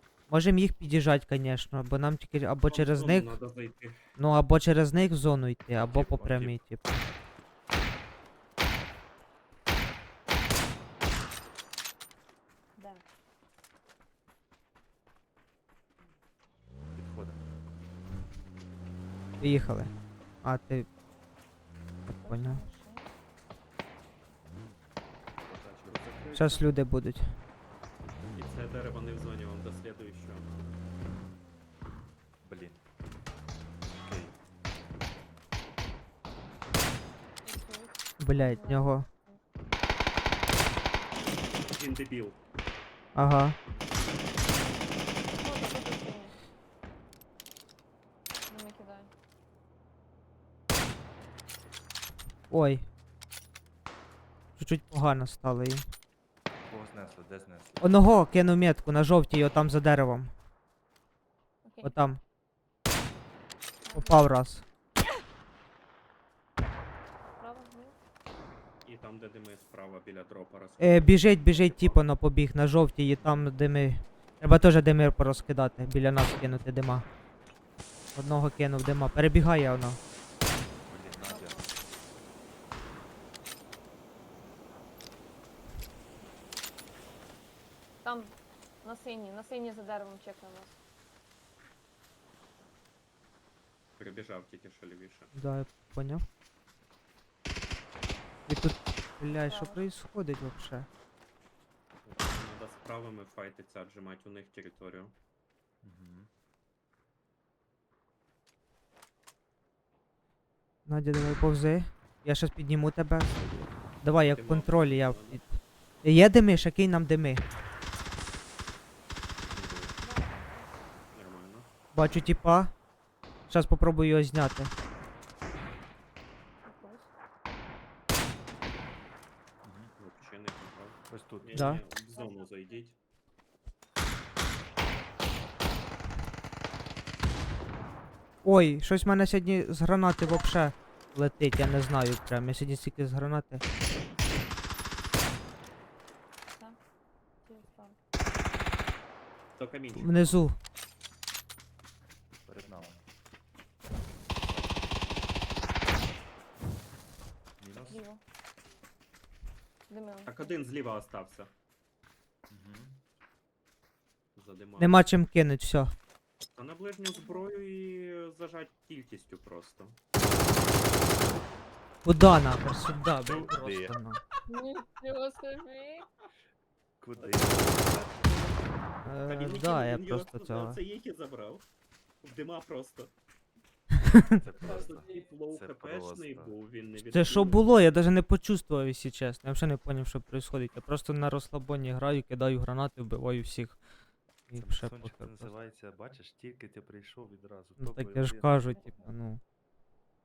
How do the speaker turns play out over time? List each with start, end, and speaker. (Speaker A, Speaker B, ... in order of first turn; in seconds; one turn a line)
Speaker A: 0.3-3.3
Speaker B: 2.7-4.1
Speaker A: 4.2-7.0
Speaker B: 5.9-6.5
Speaker C: 12.8-13.1
Speaker D: 16.9-17.5
Speaker A: 19.4-20.9
Speaker A: 22.1-22.6
Speaker C: 22.1-23.1
Speaker B: 25.4-26.7
Speaker D: 25.8-26.1
Speaker A: 26.3-27.4
Speaker B: 28.3-30.9
Speaker D: 32.4-32.8
Speaker D: 33.9-34.4
Speaker C: 37.4-39.9
Speaker A: 38.2-39.1
Speaker B: 41.6-42.4
Speaker A: 43.1-43.6
Speaker C: 45.3-46.4
Speaker C: 48.5-49.1
Speaker A: 52.5-52.9
Speaker A: 54.6-55.9
Speaker D: 56.7-58.1
Speaker A: 57.8-60.3
Speaker C: 61.6-62.0
Speaker A: 61.8-62.2
Speaker C: 63.8-64.3
Speaker A: 63.9-64.6
Speaker C: 67.4-68.0
Speaker B: 68.8-72.1
Speaker A: 70.8-77.0
Speaker B: 73.2-73.5
Speaker A: 78.1-80.0
Speaker D: 80.8-81.6
Speaker C: 81.2-81.7
Speaker C: 88.0-90.8
Speaker B: 94.0-95.3
Speaker A: 95.3-96.2
Speaker A: 98.5-100.9
Speaker C: 99.4-99.9
Speaker B: 102.0-105.1
Speaker D: 105.8-106.3
Speaker A: 110.8-115.5
Speaker B: 114.1-115.4
Speaker A: 116.0-117.4
Speaker D: 119.5-120.0
Speaker C: 120.0-120.8
Speaker B: 121.1-121.7
Speaker A: 121.9-122.7
Speaker A: 123.5-124.7
Speaker C: 126.6-127.1
Speaker D: 129.6-129.9
Speaker B: 130.0-132.9
Speaker D: 131.1-131.8
Speaker A: 131.5-131.8
Speaker C: 132.1-132.7
Speaker C: 137.7-138.0
Speaker A: 138.4-143.6
Speaker C: 147.4-148.0
Speaker B: 149.6-150.5
Speaker A: 149.9-150.6
Speaker D: 152.4-153.0
Speaker D: 154.4-154.9
Speaker D: 157.6-158.0
Speaker C: 157.8-158.2
Speaker C: 159.9-160.6
Speaker B: 160.2-161.5
Speaker D: 162.5-163.0
Speaker B: 164.3-165.1
Speaker A: 164.8-165.9
Speaker B: 166.5-170.0
Speaker C: 167.1-167.5
Speaker A: 172.0-174.2
Speaker D: 173.2-174.0
Speaker C: 174.5-176.1
Speaker D: 177.0-178.2
Speaker B: 177.2-178.7
Speaker A: 179.0-180.8
Speaker B: 179.2-181.7
Speaker B: 182.2-183.1
Speaker A: 184.0-184.4
Speaker D: 184.3-186.6
Speaker B: 184.6-187.8
Speaker C: 184.6-185.2
Speaker A: 187.1-193.8
Speaker A: 194.5-195.5
Speaker D: 194.6-199.0
Speaker A: 197.8-199.4
Speaker C: 198.7-199.2